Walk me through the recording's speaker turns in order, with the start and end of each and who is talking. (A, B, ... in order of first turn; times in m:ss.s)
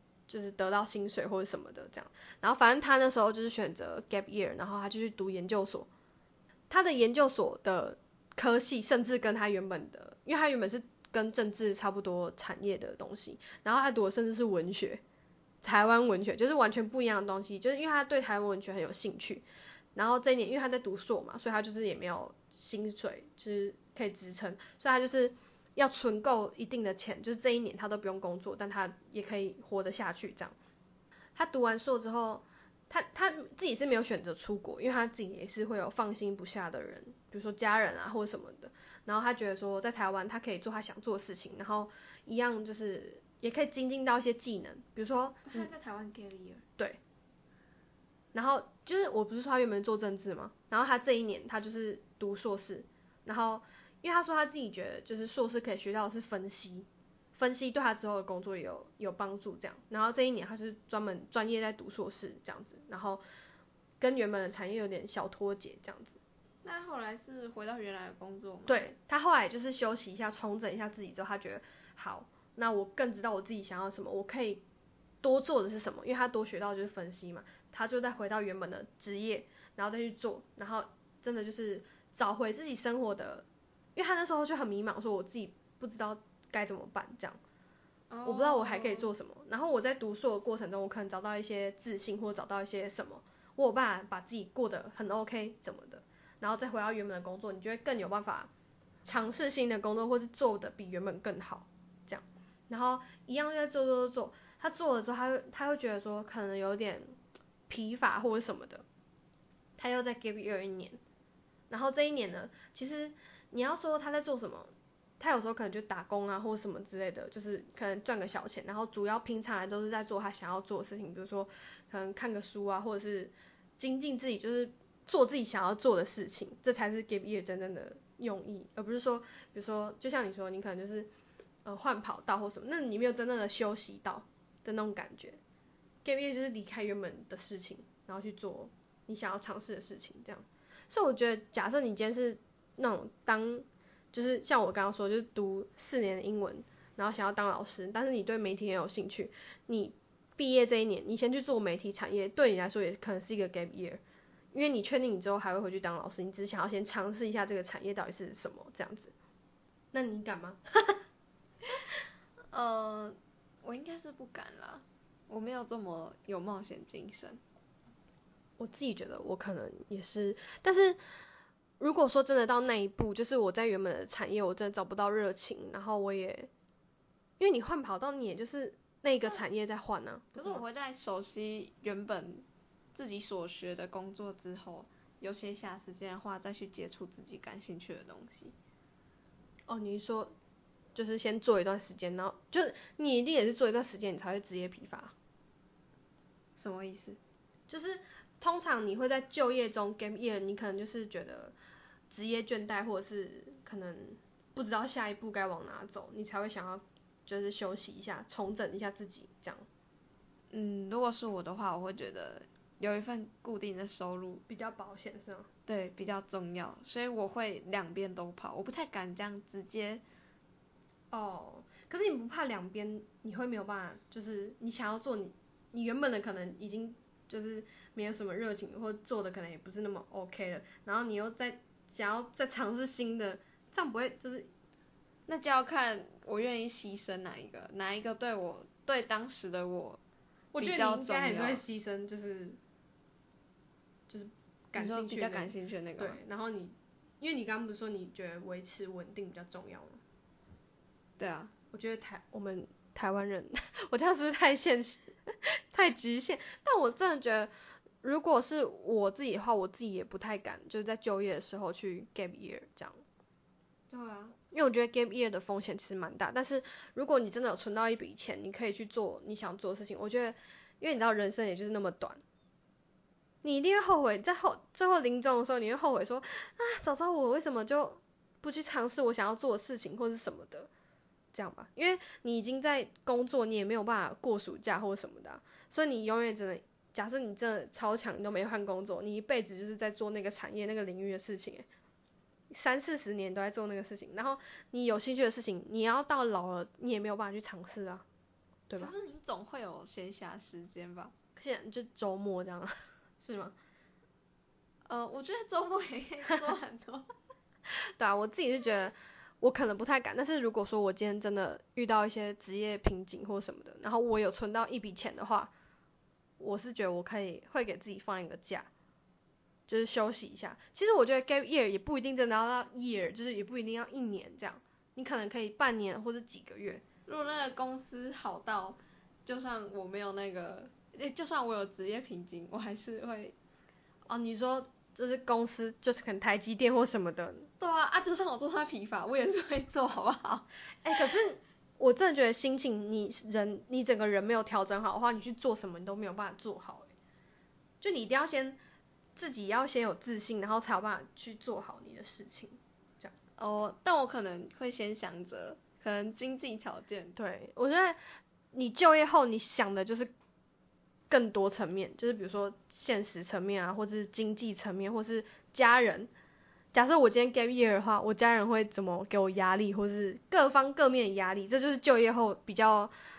0:00.3-0:05.9 A
0:06.7-0:15.0 A
0:15.6-0:30.5 A
0:31.4-0:45.7 A
0:45.5-0:46.6 B
0:48.3-1:03.2 A
1:04.0-1:06.2 A
1:06.6-1:08.8 B
1:08.6-1:14.6 A
1:15.2-1:27.4 A
1:28.1-1:29.1 B
1:28.2-1:38.5 A
1:39.0-1:47.1 A
1:47.7-1:48.8 A
1:49.8-1:51.0 A
1:51.7-2:11.1 A
2:11.6-2:15.4 A
2:16.0-2:34.0 A
2:34.5-2:39.1 A
2:39.9-2:41.0 A
2:42.5-2:47.4 B
2:48.6-2:51.0 A
2:51.8-2:56.5 A
2:57.4-3:00.6 A
3:00.3-3:08.5 B
3:09.7-3:10.3 A
3:10.9-3:15.1 A
3:16.6-3:17.2 B
3:17.7-3:21.5 A
3:22.1-3:29.6 A
3:30.5-3:34.4 B
3:34.5-3:35.5 A
3:35.7-3:40.0 B
3:41.1-3:54.5 A
3:55.3-4:00.0 B
4:00.5-4:02.6 A
4:00.6-4:01.6 B
4:04.1-4:10.0 A
4:04.8-4:06.2 B
4:11.2-4:11.5 B
4:11.7-4:17.5 A
4:18.0-4:23.0 A
4:23.9-4:24.4 B
4:24.5-4:32.2 A
4:33.4-4:40.7 A
4:41.3-4:51.6 A
4:52.5-4:58.0 A
4:58.7-4:58.9 A
4:58.8-5:01.1 B
5:01.4-5:03.5 A
5:04.8-5:07.1 B
5:08.0-5:15.5 A
5:16.4-5:18.7 A
5:19.7-5:26.8 A
5:27.0-5:33.3 B
5:34.1-5:37.5 A
5:37.6-5:40.5 B
5:40.8-5:46.9 A
5:47.8-5:48.6 A
5:49.2-5:53.1 A
5:53.4-5:57.1 B
5:57.2-5:58.0 A
5:58.5-6:00.1 A
6:01.1-6:06.1 A
6:06.7-6:12.9 A